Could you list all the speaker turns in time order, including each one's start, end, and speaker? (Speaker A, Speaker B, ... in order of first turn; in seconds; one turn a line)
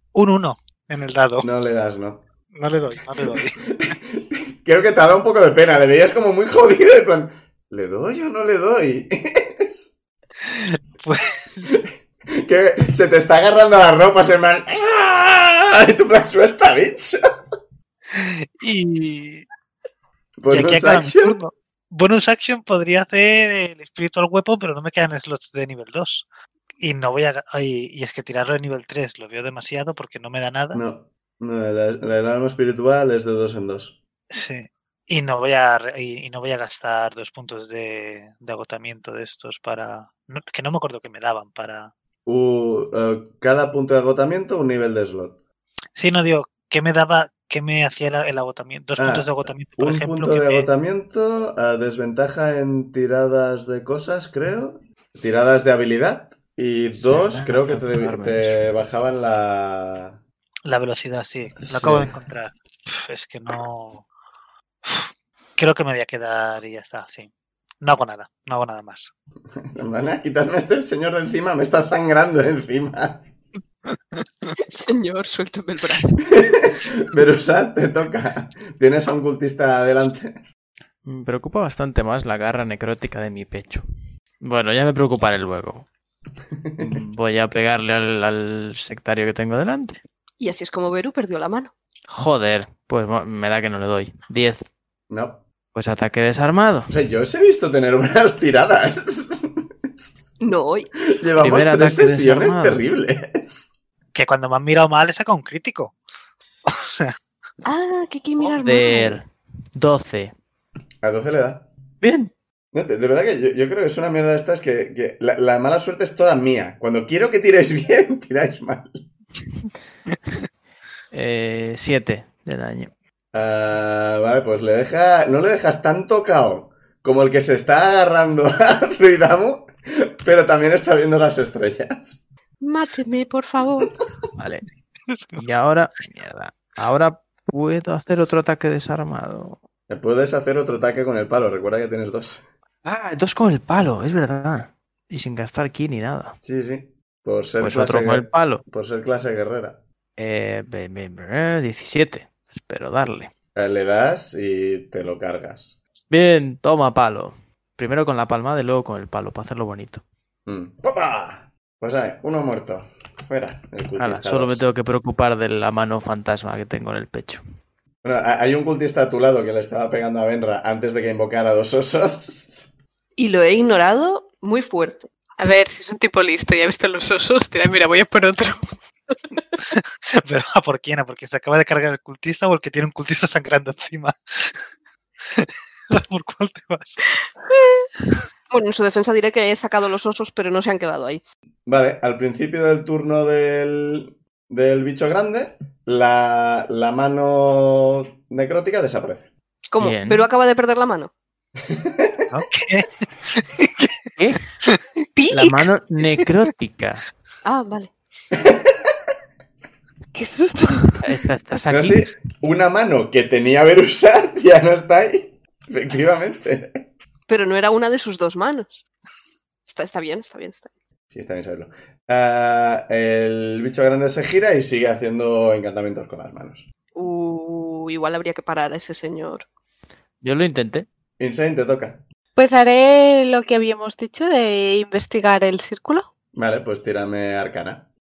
Speaker A: 0.1-1.5
Speaker B: 1.4-2.2
Speaker A: 2.5-3.6
Speaker B: 3.6-9.9
Speaker A: 10.4-11.8
Speaker B: 11.7-17.2
Speaker A: 18.1-19.5
Speaker B: 20.4-21.4
Speaker A: 20.5-26.2
Speaker A: 26.8-30.8
Speaker B: 30.7-34.0
Speaker A: 34.3-41.9
Speaker B: 42.2-45.4
Speaker A: 46.0-50.7
Speaker B: 49.0-60.2
Speaker C: 56.9-58.7
Speaker A: 60.6-64.1
Speaker B: 61.6-62.1
Speaker A: 64.8-67.3
Speaker A: 67.8-69.1
Speaker B: 69.5-73.2
Speaker D: 74.7-76.2
Speaker B: 76.2-80.4
Speaker C: 81.0-83.8
Speaker C: 84.4-85.9
Speaker B: 86.6-87.0
Speaker C: 86.8-90.0
Speaker D: 90.4-91.7
Speaker C: 92.1-94.6
Speaker B: 95.1-95.4
Speaker C: 95.7-96.9
Speaker B: 96.9-100.3
Speaker D: 100.4-100.9
Speaker B: 101.0-103.7
Speaker C: 101.4-102.8
Speaker A: 104.1-105.9
Speaker A: 106.7-107.1
Speaker D: 107.6-109.2
Speaker C: 108.5-110.3
Speaker B: 111.0-111.7
Speaker C: 112.0-112.3
Speaker B: 112.7-119.0
Speaker C: 121.1-122.9
Speaker B: 123.3-132.2
Speaker D: 132.6-133.9
Speaker C: 134.4-134.7
Speaker A: 135.1-135.4
Speaker C: 135.3-139.6
Speaker B: 139.9-142.4
Speaker C: 142.8-146.4
Speaker B: 146.4-149.8
Speaker C: 147.6-148.6
Speaker C: 150.2-153.3
Speaker B: 153.5-155.8
Speaker C: 156.1-160.0
Speaker B: 160.4-164.6
Speaker C: 164.0-167.4
Speaker B: 168.0-172.7
Speaker D: 173.2-175.1
Speaker E: 175.4-178.6
Speaker A: 179.7-184.6
Speaker A: 185.3-187.0
Speaker D: 188.5-191.2
Speaker B: 191.7-199.3
Speaker D: 199.7-201.1
Speaker C: 199.8-200.3
Speaker B: 201.6-202.2
Speaker A: 202.3-204.1
Speaker C: 204.2-204.4
Speaker E: 205.2-205.7
Speaker C: 205.3-207.1
Speaker D: 207.4-207.9
Speaker B: 208.3-208.9
Speaker E: 210.1-211.1
Speaker C: 211.0-212.0
Speaker B: 211.7-216.8
Speaker D: 217.3-218.8
Speaker D: 219.7-220.7
Speaker B: 221.1-226.7
Speaker D: 226.9-229.4
Speaker C: 230.2-230.8
Speaker B: 231.2-232.0
Speaker E: 232.3-236.1
Speaker B: 236.3-237.9